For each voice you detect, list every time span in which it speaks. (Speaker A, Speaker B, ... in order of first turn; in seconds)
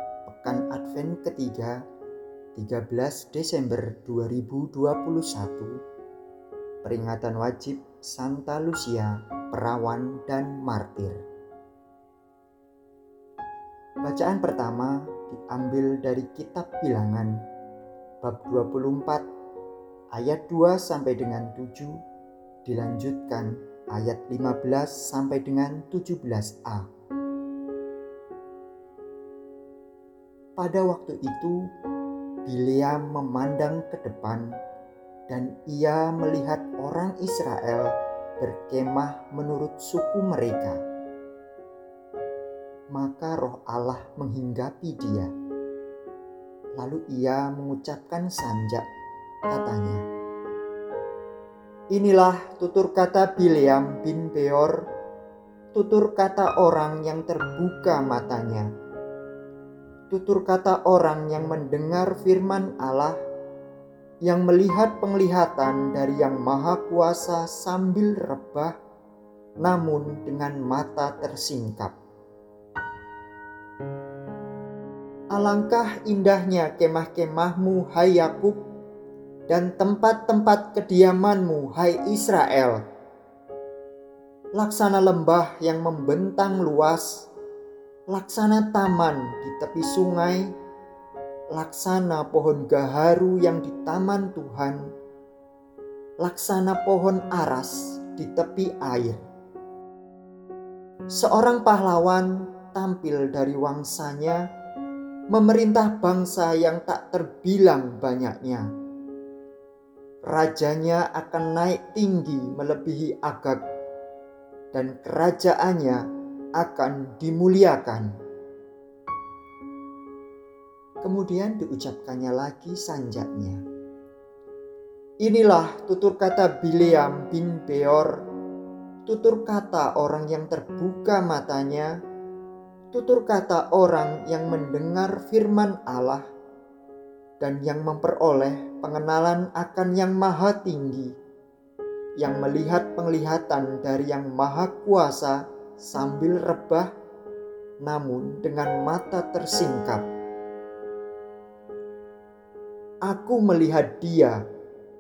Speaker A: 0.3-1.8, 2.5-5.8, 6.8-11.2, 14.0-17.4, 18.2-19.2, 20.1-22.0, 22.6-26.9, 30.6-31.6, 32.5-34.5, 35.3-40.8, 42.9-45.3, 46.8-48.9, 49.5-50.0, 51.9-54.9, 55.7-58.7, 60.1-63.2, 64.2-68.8, 69.6-72.0, 75.3-78.6, 79.5-82.8, 84.5-87.3, 88.1-90.5, 91.5-94.9, 96.2-99.2, 101.1-104.4, 105.3-108.7, 110.2-113.6, 114.7-116.0, 116.6-118.1, 121.0-123.6, 125.2-128.2, 129.1-131.9, 132.9-136.3, 137.4-141.2, 142.2-146.9, 147.8-150.1, 153.1-154.4